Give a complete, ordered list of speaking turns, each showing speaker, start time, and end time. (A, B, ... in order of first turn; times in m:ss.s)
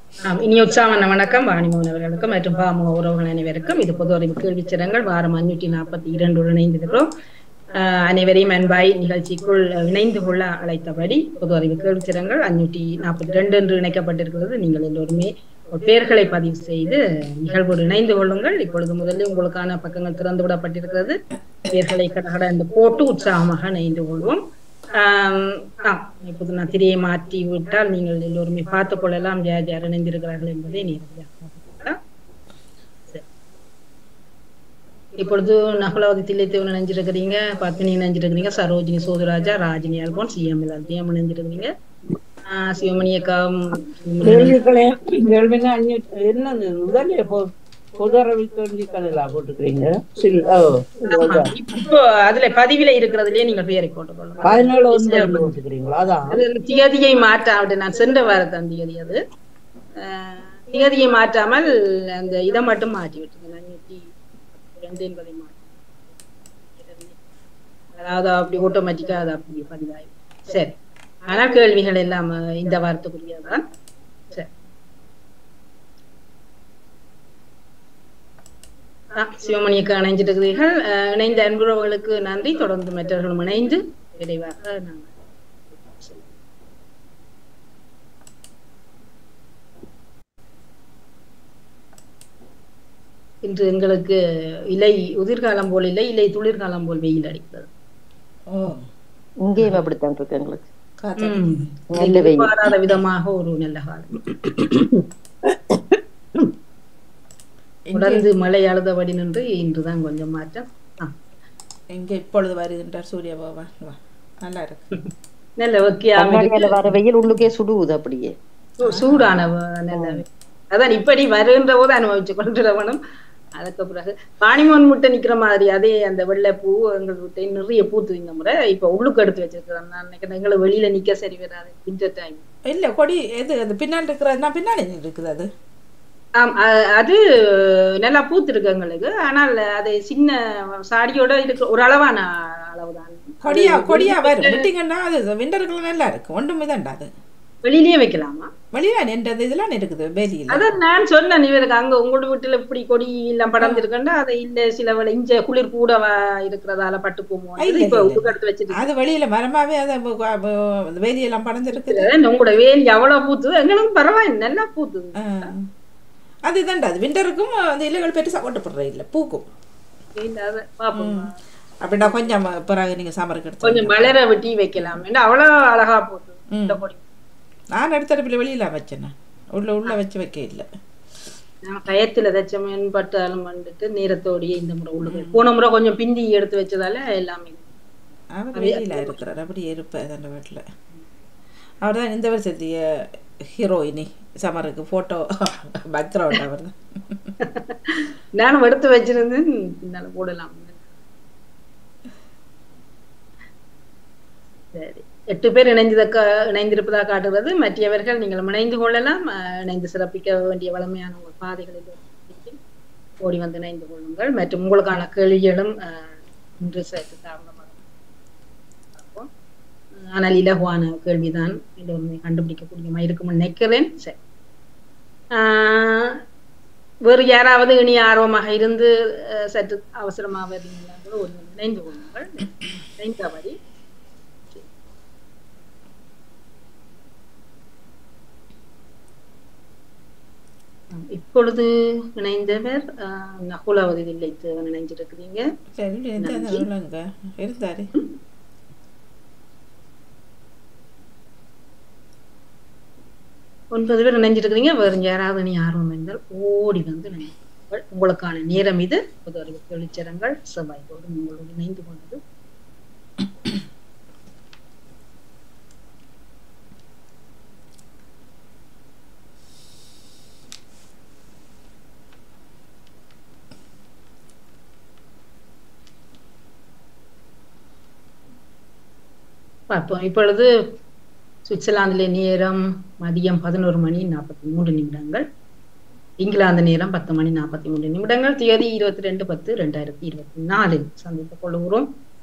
0:00.2-0:07.1 A
0:07.8-0:24.4 A
0:24.9-0:32.0 A
0:35.2-0:41.7 A
0:42.5-0:44.6 A
0:44.2-0:51.5 B
0:51.1-0:55.5 A
0:54.4-0:56.4 B
0:56.3-0:59.2 A
1:00.0-1:05.7 A
1:06.7-1:07.1 A
1:07.9-1:13.6 A
1:19.2-1:25.1 A
1:25.8-1:26.3 A
1:33.4-1:34.2 A
1:34.7-1:37.7 A
1:38.5-1:38.8 C
1:39.4-1:40.7 D
1:41.0-1:41.7 C
1:41.2-1:44.2 A
1:41.9-1:42.6 D
1:47.9-1:48.2 C
1:47.9-1:51.1 A
1:51.9-1:54.9 C
1:55.6-1:56.9 A
1:56.2-1:58.3 D
1:58.8-2:03.0 A
1:58.8-1:59.3 C
1:59.9-2:00.2 D
2:03.6-2:12.4 A
2:12.7-2:15.5 C
2:16.4-2:24.6 A
2:23.4-2:27.1 C
2:27.6-2:28.5 A
2:28.7-2:30.7 C
2:30.5-2:38.8 A
2:37.6-2:42.1 C
2:41.8-2:45.5 A
2:45.2-2:45.6 C
2:46.5-2:49.4 C
2:50.2-2:51.3 A
2:51.0-2:51.3 C
2:51.8-2:54.1 C
2:52.0-2:52.3 A
2:53.6-2:57.0 A
2:56.5-2:56.8 C
2:57.8-3:00.7 C
3:01.6-3:07.7 A
3:05.1-3:05.4 C
3:08.4-3:10.6 C
3:08.5-3:09.2 A
3:11.8-3:12.8 C
3:13.6-3:17.3 C
3:17.4-3:20.8 A
3:24.7-3:32.6 A
3:33.2-3:37.8 A
3:39.0-3:39.3 A
3:40.0-3:44.2 A
3:45.3-3:46.2 A
3:47.0-3:53.6 A
4:00.9-4:05.4 A
4:05.8-4:07.9 C
4:06.2-4:06.6 A
4:13.7-4:22.2 A
4:39.7-4:40.5 A
4:41.4-4:45.2 A
4:46.2-4:51.9 A